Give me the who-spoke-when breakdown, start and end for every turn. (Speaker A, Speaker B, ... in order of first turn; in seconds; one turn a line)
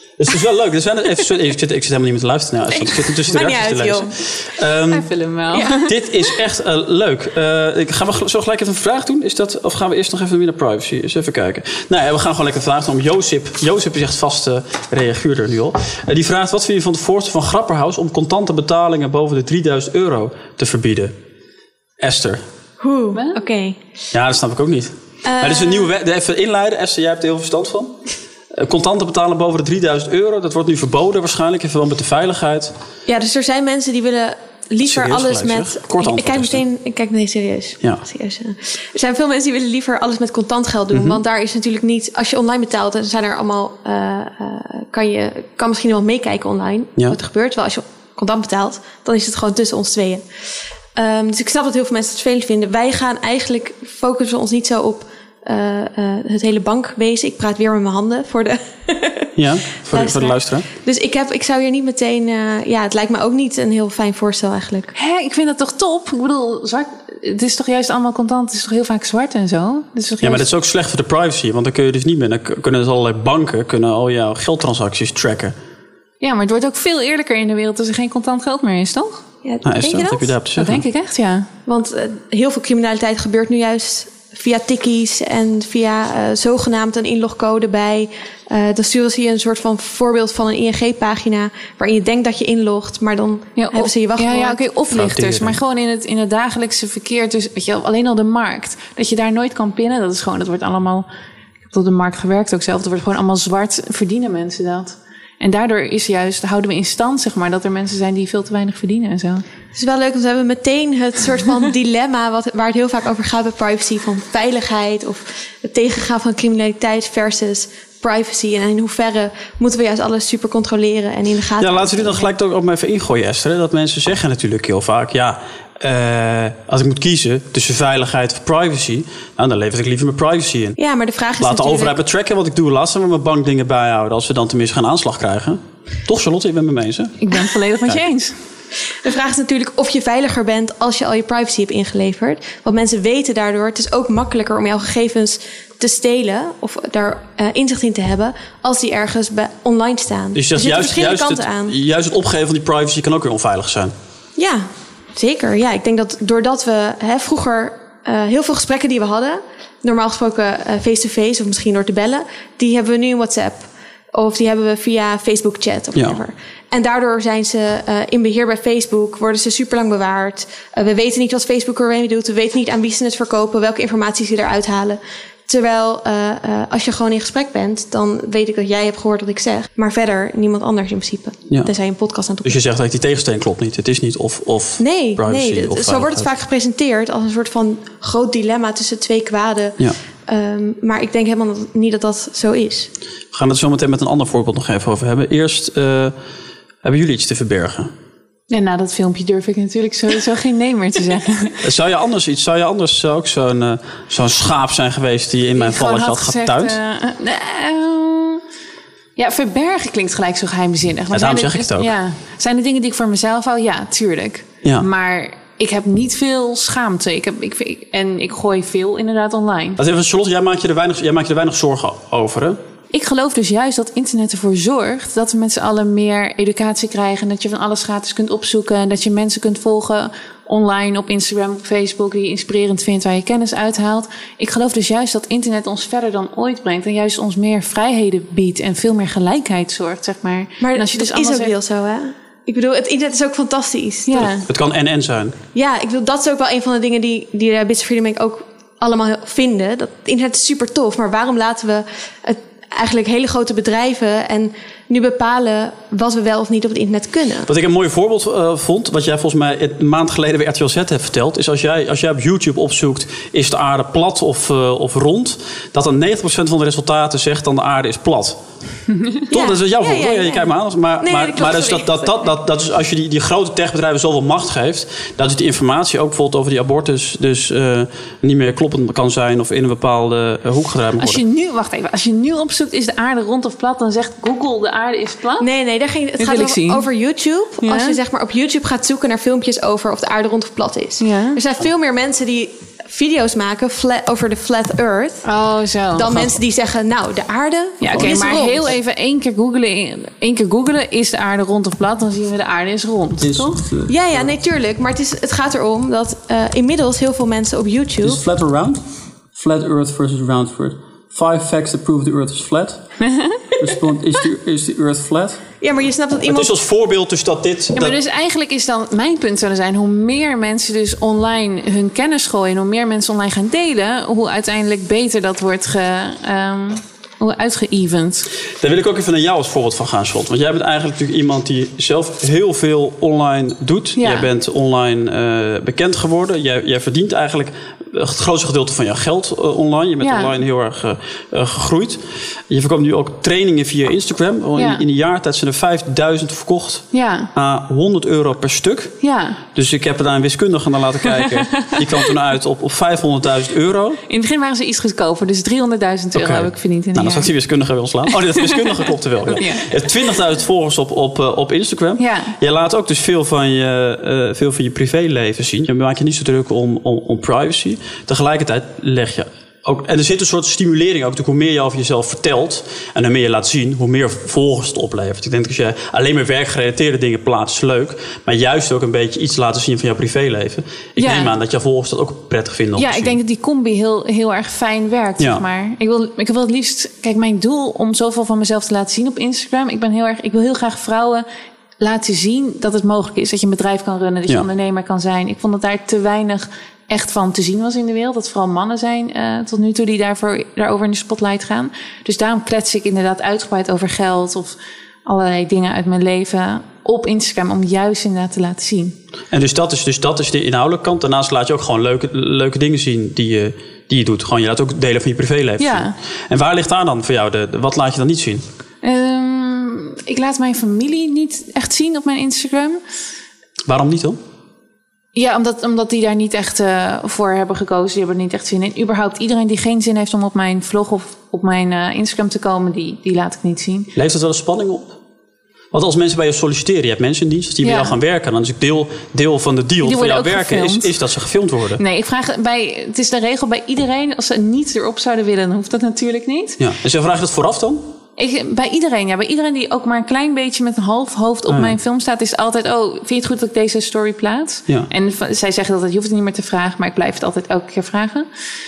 Speaker A: 0.2-5.1
Speaker B: 3.3-4.1
Speaker C: 4.9-5.9
Speaker A: 5.8-21.1
Speaker A: 22.0-22.4
Speaker B: 22.8-23.8
Speaker C: 23.1-23.4
Speaker A: 24.1-28.0
Speaker B: 25.2-25.9
Speaker A: 28.5-32.7
Speaker B: 33.1-50.2
Speaker A: 34.8-36.6
Speaker A: 40.9-41.2
Speaker B: 50.9-59.3
Speaker A: 59.4-60.7
Speaker B: 59.9-64.9
Speaker C: 64.9-70.4
Speaker A: 70.2-75.6
Speaker C: 76.2-79.2
Speaker B: 79.4-80.3
Speaker A: 79.6-80.8
Speaker C: 80.6-81.5
Speaker B: 81.7-94.6
Speaker C: 93.6-101.1
Speaker A: 94.9-95.6
Speaker C: 101.7-109.4
Speaker B: 109.7-122.3
Speaker A: 121.6-130.8
Speaker B: 130.8-132.0
Speaker A: 131.4-137.2
Speaker C: 137.2-138.3
Speaker B: 139.0-151.8
Speaker A: 150.3-153.9
Speaker B: 154.3-182.6
Speaker A: 182.4-186.3
Speaker B: 184.8-192.9
Speaker A: 193.3-196.1
Speaker A: 196.8-197.9
Speaker C: 198.5-201.6
Speaker A: 201.6-206.8
Speaker C: 205.6-208.4
Speaker C: 209.2-219.8
Speaker A: 211.1-211.9
Speaker A: 219.8-222.6
Speaker C: 222.9-241.5
Speaker B: 240.6-244.3
Speaker C: 244.1-244.4
Speaker A: 244.2-245.3
Speaker B: 245.5-257.5
Speaker A: 257.5-268.4
Speaker C: 268.9-269.2
Speaker A: 269.3-281.2
Speaker B: 269.3-272.3
Speaker C: 281.0-285.5
Speaker B: 285.4-295.2
Speaker C: 286.2-286.9
Speaker C: 287.6-288.0
Speaker C: 291.0-291.4
Speaker C: 295.2-296.4
Speaker B: 295.9-298.7
Speaker C: 297.8-303.6
Speaker A: 297.9-298.7
Speaker A: 303.2-304.3
Speaker B: 303.9-308.2
Speaker A: 308.0-308.8
Speaker A: 309.3-312.8
Speaker C: 313.1-313.4
Speaker A: 313.6-315.4
Speaker B: 315.6-316.5
Speaker A: 316.3-318.0
Speaker C: 317.8-328.3
Speaker A: 328.6-348.9
Speaker C: 334.0-334.3
Speaker C: 340.0-340.4
Speaker C: 344.6-344.8
Speaker C: 346.9-347.3
Speaker C: 349.0-349.4
Speaker A: 349.6-354.0
Speaker C: 354.1-357.3
Speaker A: 356.1-383.2
Speaker C: 358.2-359.9
Speaker C: 362.0-362.3
Speaker C: 381.0-381.3
Speaker C: 382.8-391.2
Speaker C: 391.8-408.9
Speaker A: 409.3-418.4
Speaker C: 415.6-415.9
Speaker C: 418.8-422.8
Speaker A: 423.7-424.2
Speaker C: 425.1-433.9
Speaker A: 433.9-434.9
Speaker A: 435.7-441.8
Speaker C: 437.6-438.0
Speaker C: 439.8-440.9
Speaker C: 441.8-446.6
Speaker A: 446.6-447.8
Speaker C: 448.2-458.3
Speaker A: 451.5-451.8